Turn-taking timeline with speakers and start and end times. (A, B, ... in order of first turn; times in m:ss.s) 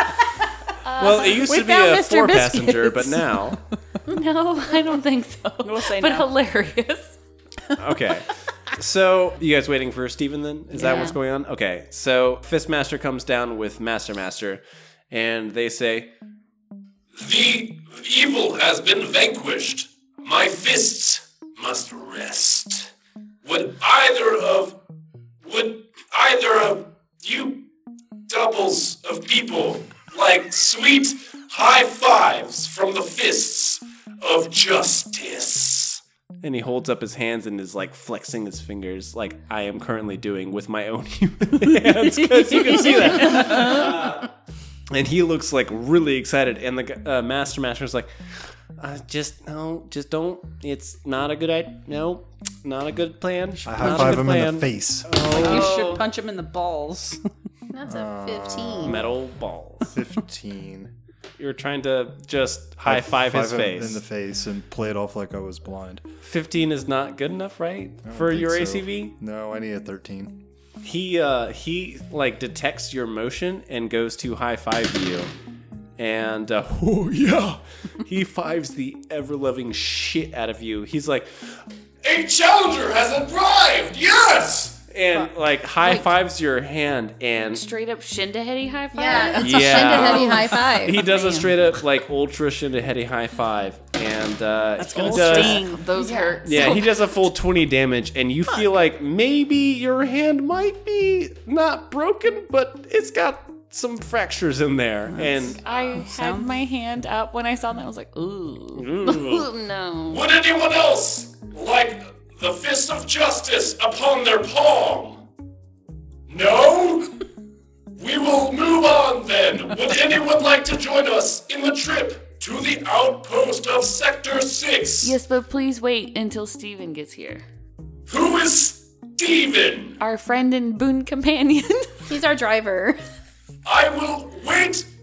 0:00.8-0:01.5 A
0:01.0-0:03.6 B
0:01.4-0:03.5 C
0:04.0-0:07.2 A
0:05.6-0:06.3 C
0:07.8-0:16.1 B
0:10.8-0:11.1 C
0:10.8-0:11.2 A
0:17.1-0:22.9 D
0:23.4-0:24.8 D
0:25.4-0:27.6 D
0:28.3-0:35.9 D
0:35.9-0:44.3 B
0:42.0-0:43.9 C
0:44.9-0:48.1 B
0:48.8-0:55.9 B
0:53.6-0:55.3 E
0:53.7-0:54.3 C
0:55.2-0:57.2 C
0:55.3-0:56.1 A
0:57.7-0:59.0 F
0:57.8-0:59.1 E
0:58.8-1:00.0 B
0:59.9-1:00.9 E
1:01.4-1:04.0 B
1:02.8-1:06.0 E
1:06.2-1:09.1 B
1:08.0-1:10.4 E
1:10.8-1:15.3 B
1:16.0-1:21.5 B
1:22.0-1:24.9 D
1:24.9-1:27.7 B
1:27.5-1:30.4 A
1:28.9-1:31.1 F
1:29.4-1:35.8 B
1:31.0-1:31.5 C
1:34.8-1:35.8 C
1:35.0-1:37.2 A
1:36.0-1:36.4 F
1:36.4-1:45.6 B
1:45.1-1:46.5 C
1:45.4-1:50.2 A
1:48.7-1:49.5 B
1:50.1-1:55.2 D
1:56.3-1:57.1 D
1:57.9-2:05.2 D
2:05.0-2:07.4 A
2:08.1-2:10.0 D
2:10.0-2:12.1 A
2:12.1-2:13.0 F
2:13.6-2:14.8 D